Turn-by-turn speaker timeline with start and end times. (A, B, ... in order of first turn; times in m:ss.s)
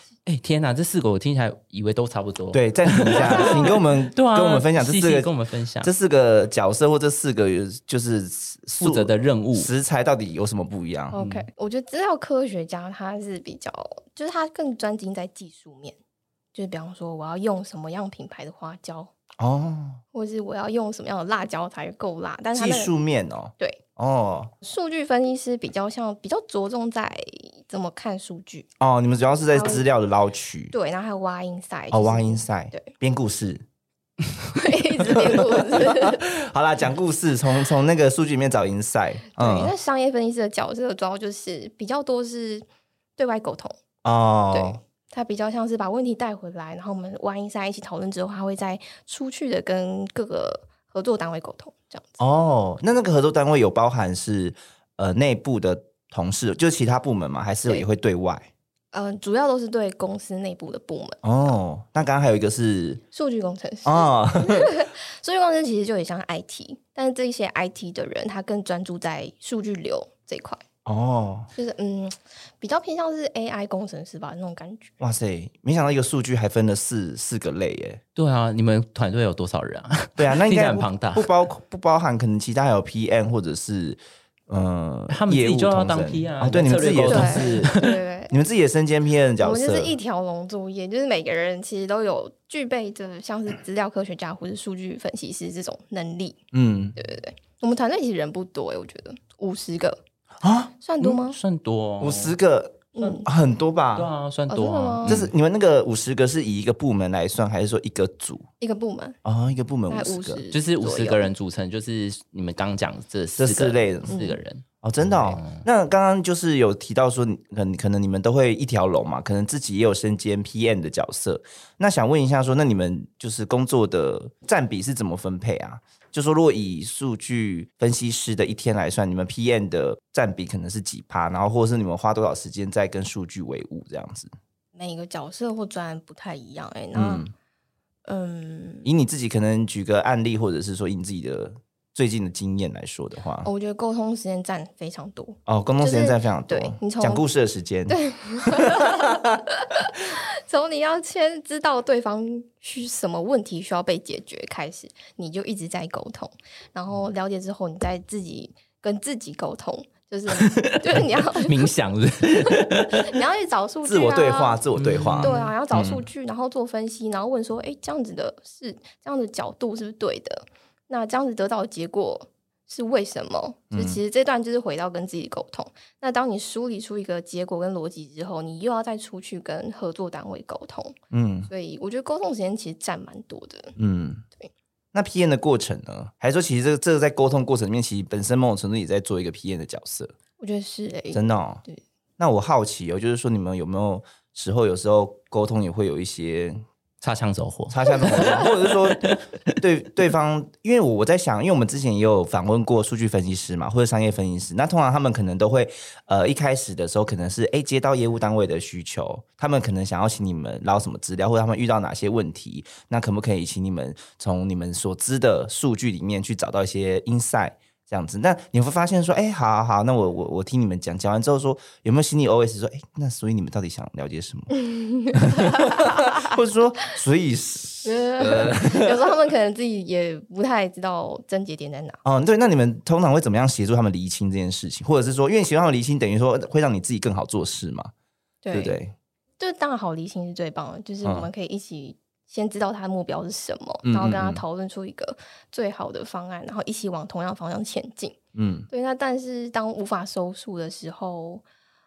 0:00.3-0:05.9 A
0:02.5-0:05.3 B
0:03.1-0:03.8 C
0:05.8-0:11.2 B
0:08.8-0:09.7 A
0:11.1-0:11.5 A
0:11.1-0:16.0 C
0:16.5-0:19.1 C
0:19.4-0:20.0 B
0:20.1-0:22.9 C
0:22.6-0:24.5 B
0:24.6-0:28.7 C
0:28.8-0:30.7 B
0:29.5-0:29.8 C
0:30.7-0:32.9 C
0:31.9-0:33.6 B
0:34.5-0:36.2 C
0:35.0-0:39.7 B
0:39.4-0:42.7 C
0:43.2-0:43.8 C
0:44.0-0:44.8 B
0:44.5-0:52.2 C
0:52.2-0:58.5 B
0:58.9-1:01.2 C
1:01.2-1:03.0 B
1:03.1-1:10.6 C
1:03.8-1:04.7 B
1:10.8-1:11.5 B
1:11.5-1:14.9 C
1:15.0-1:18.0 B
1:18.2-1:21.3 A
1:20.2-1:30.0 B
1:25.1-1:28.0 A
1:27.1-1:28.3 C
1:29.4-1:36.4 C
1:36.5-1:37.0 B
1:37.0-1:40.0 C
1:40.4-1:40.7 B
1:40.8-1:41.4 C
1:41.0-1:42.4 A
1:42.0-1:44.1 B
1:43.0-1:43.3 C
1:44.0-1:45.3 A
1:44.5-1:45.2 C
1:45.0-1:48.5 B
1:48.6-1:49.2 C
1:49.2-1:50.4 B
1:49.9-1:51.3 C
1:50.5-1:55.6 A
1:53.4-1:54.2 B
1:54.1-1:54.4 C
1:54.8-2:14.3 B
2:14.8-2:17.2 C
2:16.9-2:17.3 B
2:18.0-2:18.9 C
2:18.8-2:23.5 B
2:23.4-2:27.2 C
2:25.5-2:29.2 B
2:27.9-2:41.7 C
2:40.3-2:43.1 A
2:42.4-2:44.6 C
2:43.8-2:46.0 B
2:44.8-2:45.5 A
2:45.2-3:01.0 C
2:53.7-2:54.0 B
3:01.1-3:01.5 B
3:01.5-3:03.8 C
3:03.8-3:04.2 B
3:04.9-3:10.1 B
3:10.4-3:11.8 C
3:11.1-3:11.6 B
3:12.2-3:16.6 B
3:17.0-3:19.2 A
3:17.7-3:44.6 B
3:44.5-3:46.4 C
3:45.1-3:49.1 B
3:47.8-3:52.0 C
3:52.0-3:57.9 B
3:58.4-3:58.8 C
3:58.5-3:58.9 B
3:59.4-4:08.2 C
4:01.0-4:01.3 B
4:03.8-4:04.4 B
4:08.4-4:08.7 B
4:08.7-4:11.4 C